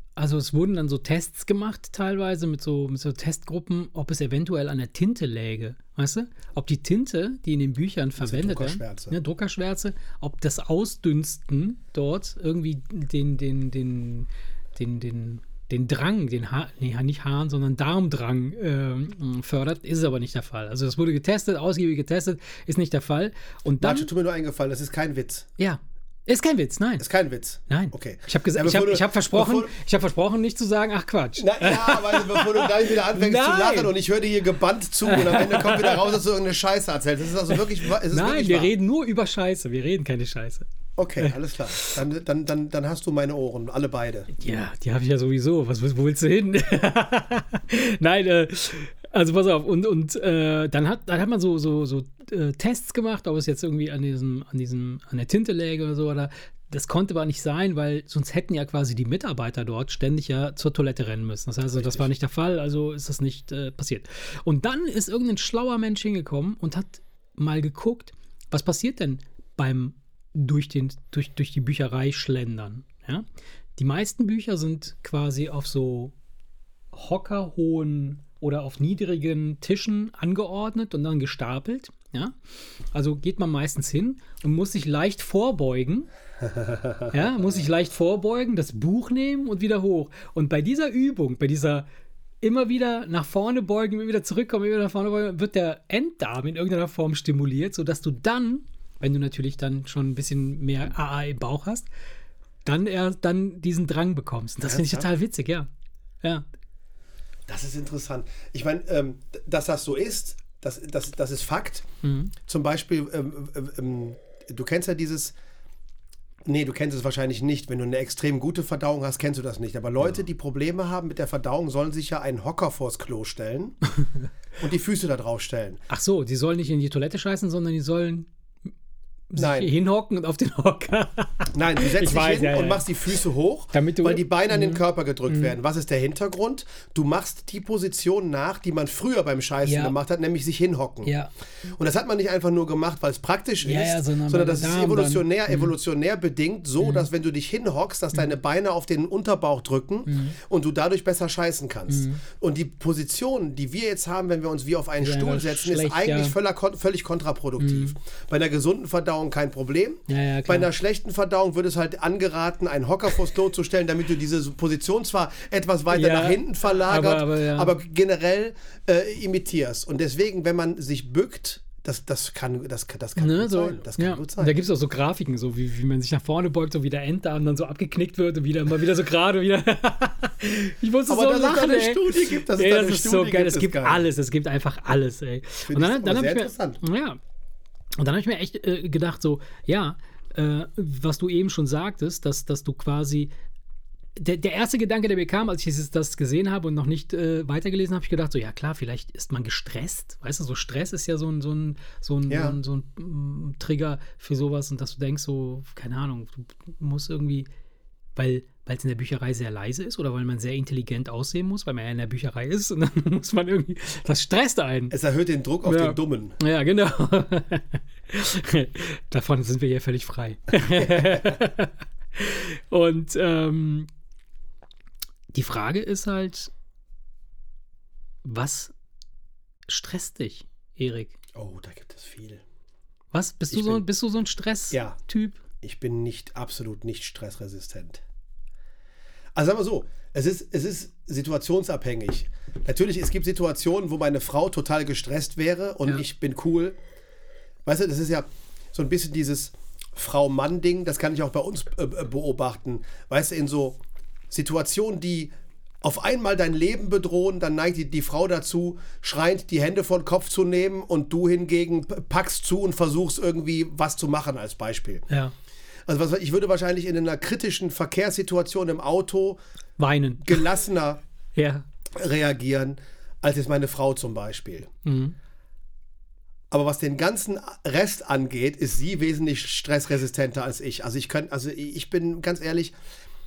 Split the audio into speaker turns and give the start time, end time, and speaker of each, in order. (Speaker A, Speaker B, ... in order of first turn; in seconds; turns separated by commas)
Speaker A: 0.2-24.1, Speaker B: 8.2-9.2, Speaker B: 23.8-25.5, Speaker A: 25.6-27.1, Speaker B: 27.0-29.7, Speaker A: 27.7-33.9, Speaker B: 31.4-38.7, Speaker A: 35.1-36.1, Speaker A: 38.0-40.7, Speaker B: 41.0-44.3, Speaker A: 41.2-42.0, Speaker A: 44.4-73.2, Speaker B: 61.8-62.0, Speaker A: 73.8-76.1, Speaker A: 76.9-82.3, Speaker A: 82.9-86.1, Speaker B: 86.4-87.4, Speaker A: 87.1-91.9, Speaker A: 92.4-101.9, Speaker A: 102.7-105.7, Speaker B: 104.7-105.1, Speaker B: 107.5-111.9, Speaker A: 112.0-112.3, Speaker B: 112.5-115.3, Speaker B: 116.5-123.8, Speaker B: 124.6-125.8, Speaker A: 125.9-128.3, Speaker A: 129.3-132.9, Speaker B: 129.4-129.7, Speaker B: 131.5-141.1, Speaker A: 133.7-135.5, Speaker A: 139.7-140.0, Speaker B: 141.7-174.6, Speaker A: 143.6-145.7, Speaker A: 146.8-147.1, Speaker A: 150.1-150.4, Speaker A: 151.9-152.2, Speaker A: 155.0-156.3, Speaker A: 157.6-157.9, Speaker A: 160.1-160.7, Speaker A: 165.9-167.7, Speaker A: 173.2-187.2, Speaker B: 181.1-184.1, Speaker B: 185.7-186.8, Speaker A: 188.0-193.3, Speaker A: 194.2-207.5, Speaker B: 202.3-202.6, Speaker A: 208.2-214.9, Speaker B: 214.9-216.4, Speaker A: 215.7-223.9, Speaker B: 220.6-221.4, Speaker A: 225.3-226.5, Speaker A: 228.2-228.7, Speaker A: 229.7-231.2, Speaker B: 231.3-232.4, Speaker A: 233.1-235.4, Speaker B: 233.5-233.8, Speaker B: 234.7-235.0, Speaker B: 235.6-238.0, Speaker B: 239.3-246.8, Speaker B: 247.7-253.8, Speaker B: 254.3-265.1, Speaker B: 265.9-269.4, Speaker A: 269.8-270.5, Speaker B: 270.2-271.0, Speaker A: 271.4-271.6, Speaker B: 271.9-274.7, Speaker A: 274.9-275.1, Speaker B: 276.5-282.8